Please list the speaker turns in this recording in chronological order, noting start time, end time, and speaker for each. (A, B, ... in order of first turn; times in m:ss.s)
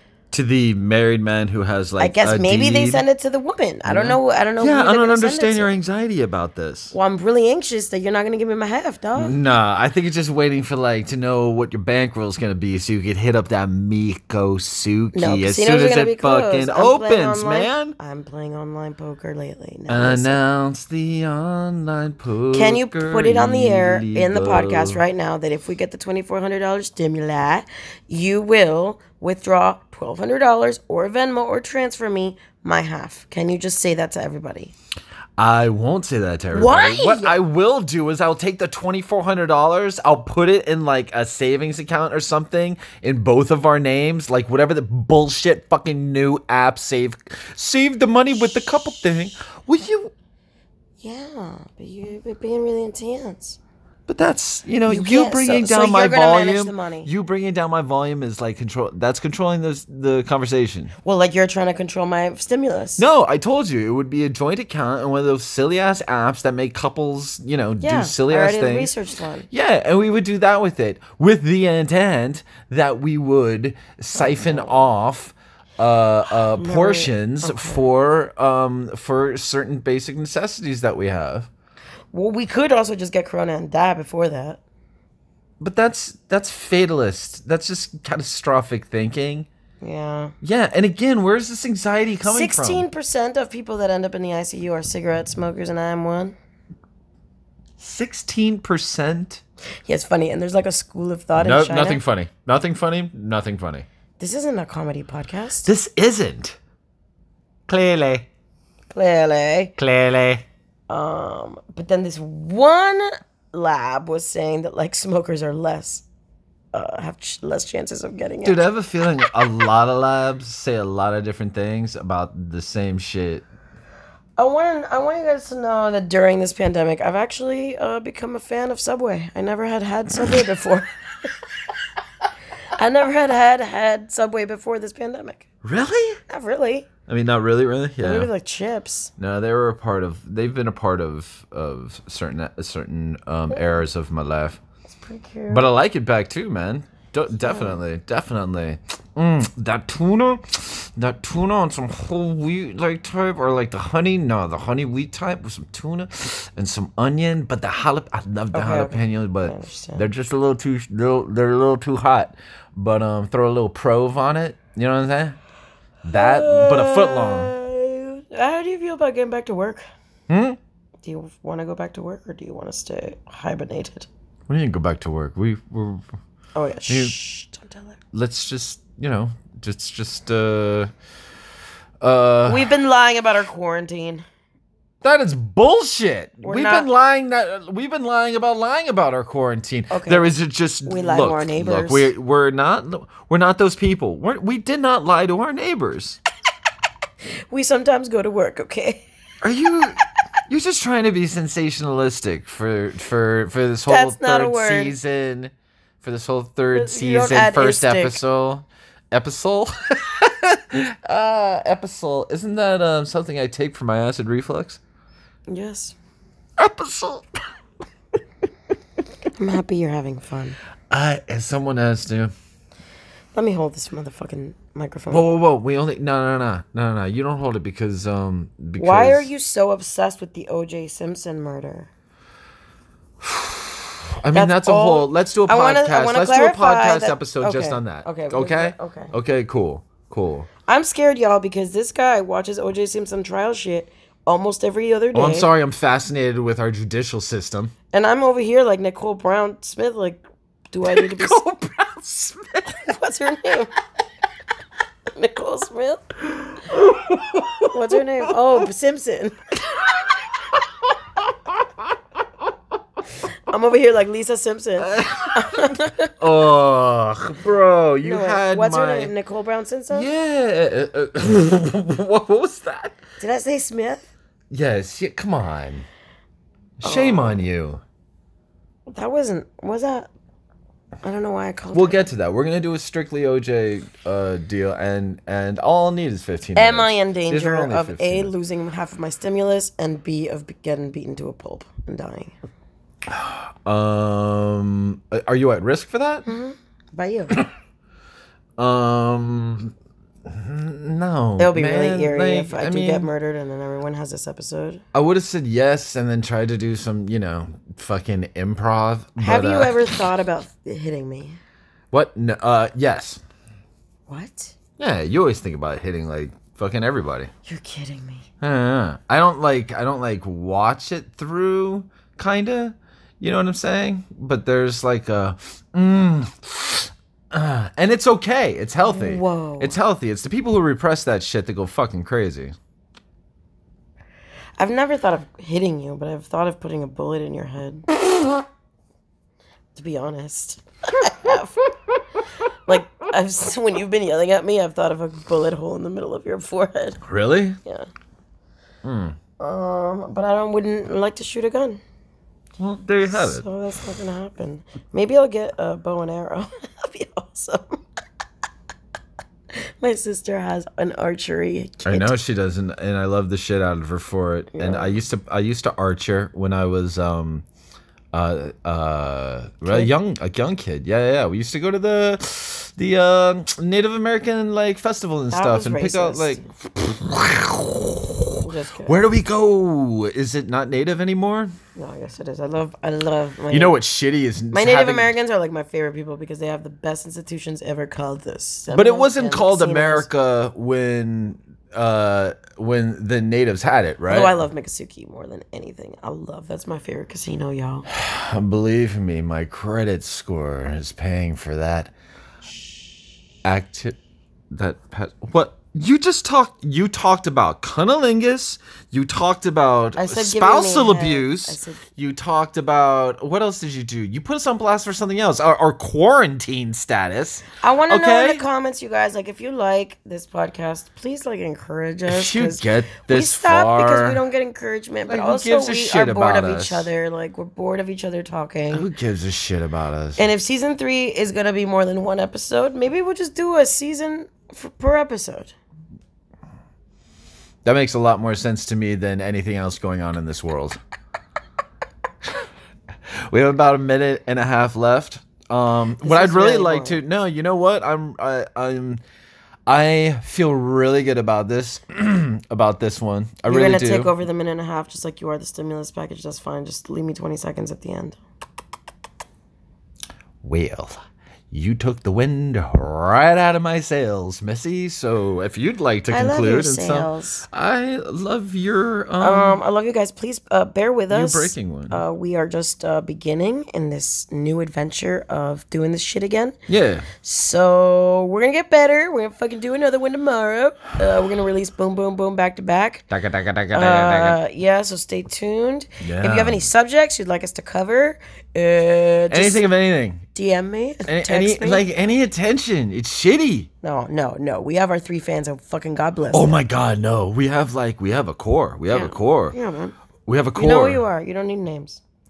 0:00.3-0:03.0 A
0:02.0-0:05.8 B
0:03.8-0:06.9 A
0:06.9-0:09.4 B
0:09.2-0:18.0 A
0:15.1-0:20.4 B
0:19.9-0:25.0 A
0:22.5-0:34.7 B
0:35.4-0:50.1 A
0:36.5-0:37.4 B
0:51.0-0:53.6 B
0:54.1-1:00.9 A
0:54.9-0:57.1 B
1:01.0-1:03.0 B
1:03.0-1:08.9 A
1:07.8-1:09.5 B
1:09.5-1:21.5 A
1:14.2-1:14.9 B
1:16.5-1:17.9 B
1:22.1-1:24.6 B
1:25.6-1:29.5 A
1:29.8-1:30.3 B
1:30.4-1:32.9 A
1:32.2-1:36.4 B
1:37.8-1:39.4 A
1:39.8-1:42.0 B
1:41.4-1:43.8 A
1:44.2-1:45.7 B
1:45.6-1:46.6 A
1:47.7-1:48.2 A
1:48.9-1:49.7 B
1:49.8-1:50.4 A
1:50.9-1:56.0 B
1:56.7-1:58.7 B
1:58.4-2:03.4 A
2:04.4-2:11.3 B
2:12.8-2:15.4 B
2:15.6-2:16.2 A
2:16.3-2:16.9 B
2:17.1-2:18.3 A
2:18.0-2:19.1 B
2:19.2-2:24.6 A
2:24.9-2:25.7 B
2:25.5-2:45.4 A
2:27.4-2:27.8 B
2:38.5-2:40.1 B
2:46.0-2:47.5 A
2:46.1-2:49.8 B
2:50.3-2:50.6 A
2:51.0-2:54.1 B
2:54.5-2:56.1 A
2:56.5-2:58.0 B
2:56.9-2:57.2 A
2:58.1-3:00.9 A
3:02.0-3:02.7 A
3:02.4-3:04.2 B
3:05.0-3:16.2 A
3:06.4-3:06.9 B
3:09.9-3:10.3 B
3:10.8-3:12.1 B
3:17.5-3:19.0 B
3:19.4-3:34.8 A
3:23.9-3:24.9 B
3:26.7-3:28.2 B
3:35.5-3:36.0 B
3:36.6-3:37.4 A
3:39.4-3:40.6 B
3:40.9-3:42.3 A
3:43.3-3:45.2 B
3:45.1-3:49.3 A
3:48.8-3:51.9 B
3:53.2-4:00.5 A
3:54.3-3:59.1 B
4:00.7-4:05.5 B
4:05.1-4:07.7 A
4:07.9-4:11.4 B
4:10.8-4:13.0 A
4:12.8-4:13.7 B
4:15.1-4:16.1 B
4:16.4-4:18.3 A
4:17.7-4:19.4 B
4:23.5-4:26.1 B
4:24.8-4:29.1 A
4:28.0-4:30.1 B
4:29.9-4:33.0 A
4:33.2-4:34.1 B
4:34.5-4:35.8 A
4:36.8-4:37.8 A
4:36.8-4:37.4 B
4:38.9-4:40.1 B
4:41.0-4:42.1 B
4:41.7-4:48.3 A
4:46.5-4:52.3 B
4:53.1-4:56.3 A
4:56.2-4:57.4 B
4:58.6-4:59.7 A
5:00.2-5:03.1 A
5:01.4-5:04.8 B
5:04.9-5:09.9 A
5:09.2-5:11.4 B
5:11.9-5:13.2 A
5:14.1-5:14.5 B
5:14.8-5:17.3 A
5:17.4-5:18.2 B
5:18.4-5:32.5 A
5:28.8-5:29.8 B
5:34.6-5:37.8 B
5:39.7-5:41.7 B
5:42.6-5:47.0 B
5:47.0-5:47.6 A
5:48.8-5:49.2 A
5:49.4-5:51.8 B
5:52.6-5:53.4 A
5:53.1-5:57.8 B
5:59.6-6:02.2 B
6:01.8-6:07.4 A
6:04.5-6:04.9 B
6:08.1-6:21.5 A
6:15.3-6:16.5 B
6:18.4-6:19.0 B
6:21.8-6:23.8 B
6:23.5-6:25.1 A
6:24.5-6:30.1 B
6:28.7-6:34.4 A
6:34.1-6:37.9 B
6:37.9-6:41.9 A
6:43.4-6:44.0 A
6:44.5-6:58.4 A
6:50.0-6:51.9 B
6:57.6-7:08.9 B
7:02.1-7:04.2 A
7:05.0-7:06.9 A
7:08.7-7:10.2 A
7:10.2-7:15.5 B
7:17.6-7:20.8 A
7:23.3-7:29.0 A
7:26.0-7:27.0 B
7:29.7-7:34.1 A
7:33.5-7:38.2 B
7:40.4-7:41.0 A
7:41.5-7:49.6 A
7:46.1-7:47.4 B
7:49.2-7:56.6 B
7:51.1-7:52.0 A
7:56.7-7:57.1 A
7:57.2-8:03.0 B
8:03.1-8:04.4 A
8:03.7-8:09.7 B
8:06.0-8:06.6 A
8:09.3-8:10.2 A
8:10.3-8:11.9 B
8:11.1-8:13.7 A
8:13.8-8:16.6 B
8:16.3-8:19.6 A
8:18.9-8:19.9 B
8:20.2-8:21.0 A
8:20.5-8:22.0 B